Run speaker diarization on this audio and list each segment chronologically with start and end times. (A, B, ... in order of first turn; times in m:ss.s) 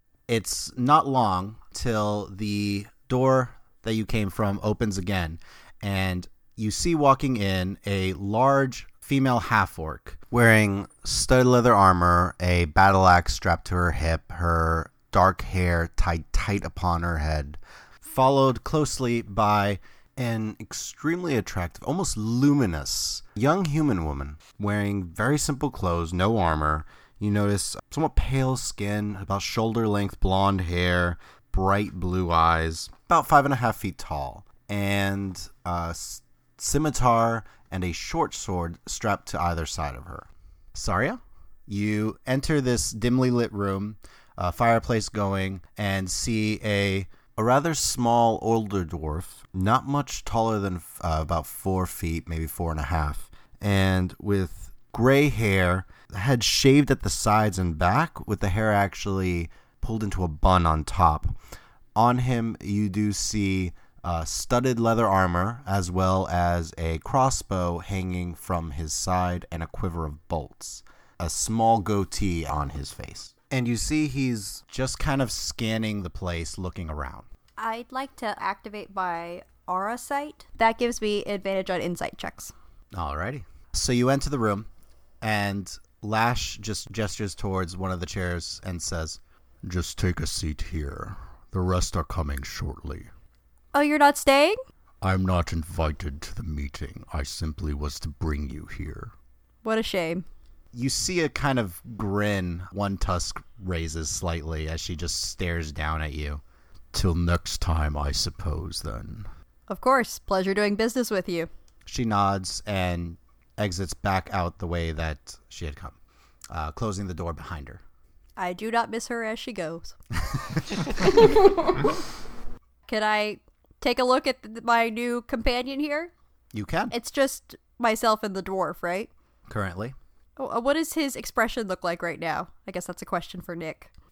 0:00.3-1:01.4 A
1:02.0-1:17.3 A
1:17.6-1:22.5 B
1:22.9-1:24.7 A
1:25.2-1:33.1 A
1:33.7-1:34.6 B
1:35.0-1:39.1 A
1:39.6-1:40.2 B
1:40.7-1:46.4 A
1:46.9-1:49.3 A
1:49.7-1:51.5 B
1:51.9-1:56.0 A
1:56.5-1:57.8 A
1:58.4-2:00.0 B
2:02.9-2:06.1 B
2:06.5-2:06.9 A
2:06.9-2:09.1 B
2:09.5-2:10.0 A
2:10.4-2:13.9 B